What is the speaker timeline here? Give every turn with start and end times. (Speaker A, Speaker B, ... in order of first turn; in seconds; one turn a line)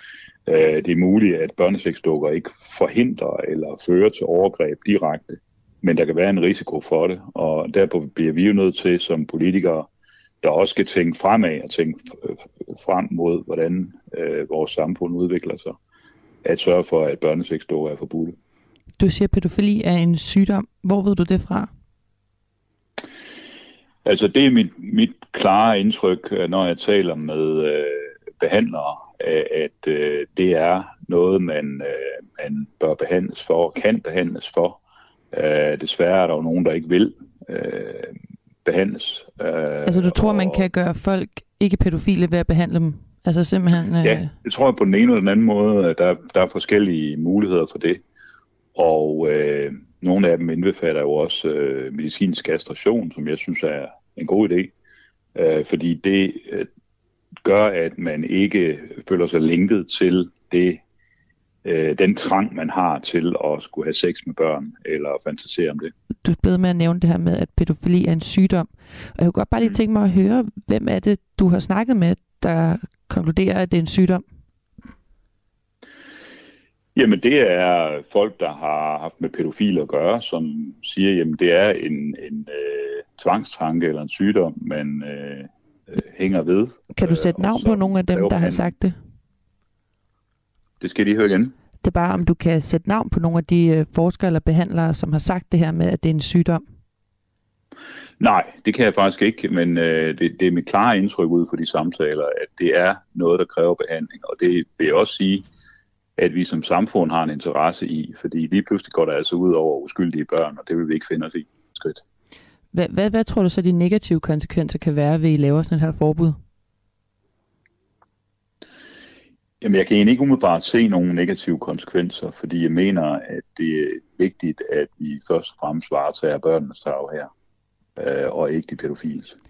Speaker A: 0.5-9.9
Speaker A: 10.4-15.8
Speaker A: 16.4-18.4
Speaker B: 19.0-21.7
Speaker A: 24.1-34.8
Speaker A: 35.3-40.7
Speaker B: 39.9-44.3
Speaker A: 44.0-48.0
Speaker A: 48.8-54.7
Speaker A: 55.4-56.7
Speaker A: 57.4-60.8
Speaker A: 61.6-65.9
Speaker B: 66.2-74.3
Speaker A: 77.0-88.8
Speaker B: 86.9-89.0
Speaker A: 90.8-91.6
Speaker B: 91.8-96.7
Speaker A: 98.2-105.5
Speaker A: 106.2-112.0
Speaker B: 112.7-116.4
Speaker A: 119.6-127.3
Speaker A: 128.0-129.3